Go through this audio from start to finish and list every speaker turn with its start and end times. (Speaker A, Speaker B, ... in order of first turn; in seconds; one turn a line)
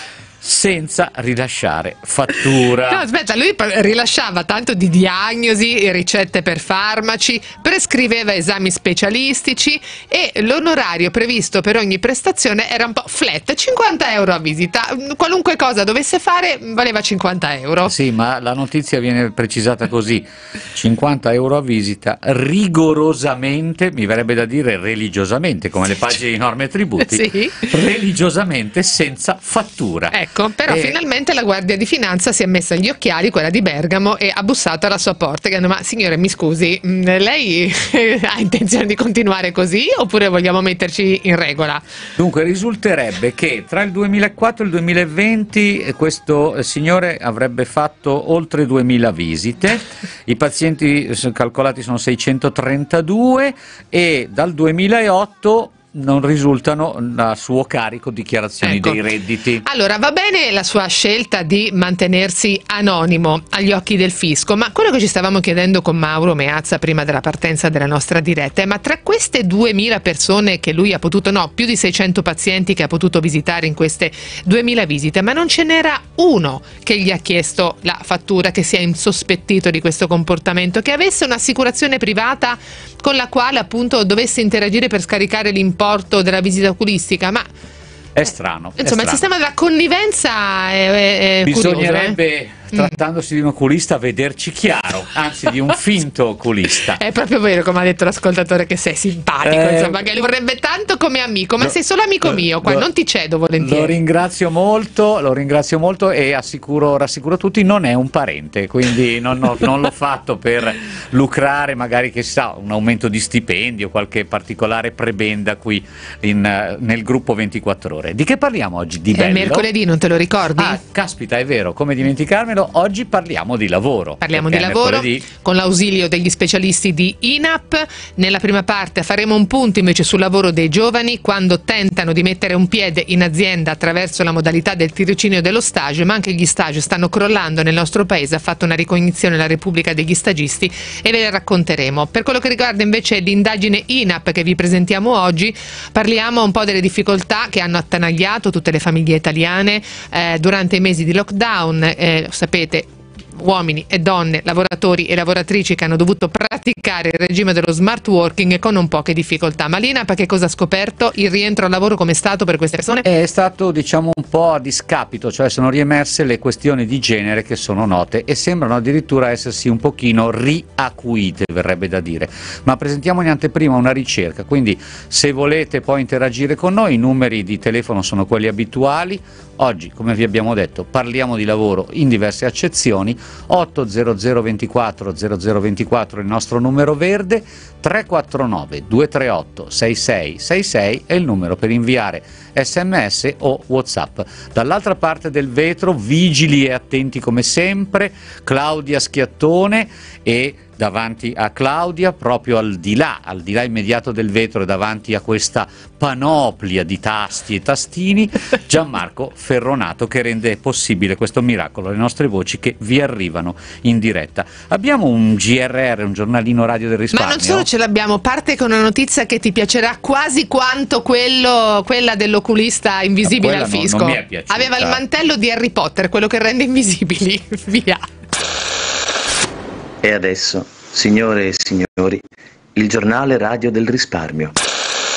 Speaker A: 0.4-3.0
Speaker B: 2.9-17.9
Speaker A: 17.9-31.0
Speaker B: 27.1-27.7
Speaker B: 30.1-41.8
Speaker A: 42.2-59.6
Speaker B: 58.6-59.0
Speaker B: 59.6-87.5
Speaker A: 88.2-89.2
Speaker B: 88.8-92.2
Speaker A: 91.5-97.0
Speaker B: 92.7-93.0
Speaker B: 97.0-103.9
Speaker A: 99.4-100.0
Speaker A: 102.2-102.9
Speaker A: 103.6-119.7
Speaker B: 119.1-120.8
Speaker A: 120.6-125.3
Speaker B: 124.2-163.1
Speaker A: 163.0-217.7
Speaker B: 217.1-228.0
Speaker A: 223.2-225.0
Speaker C: 230.0-232.2
Speaker C: 232.8-234.5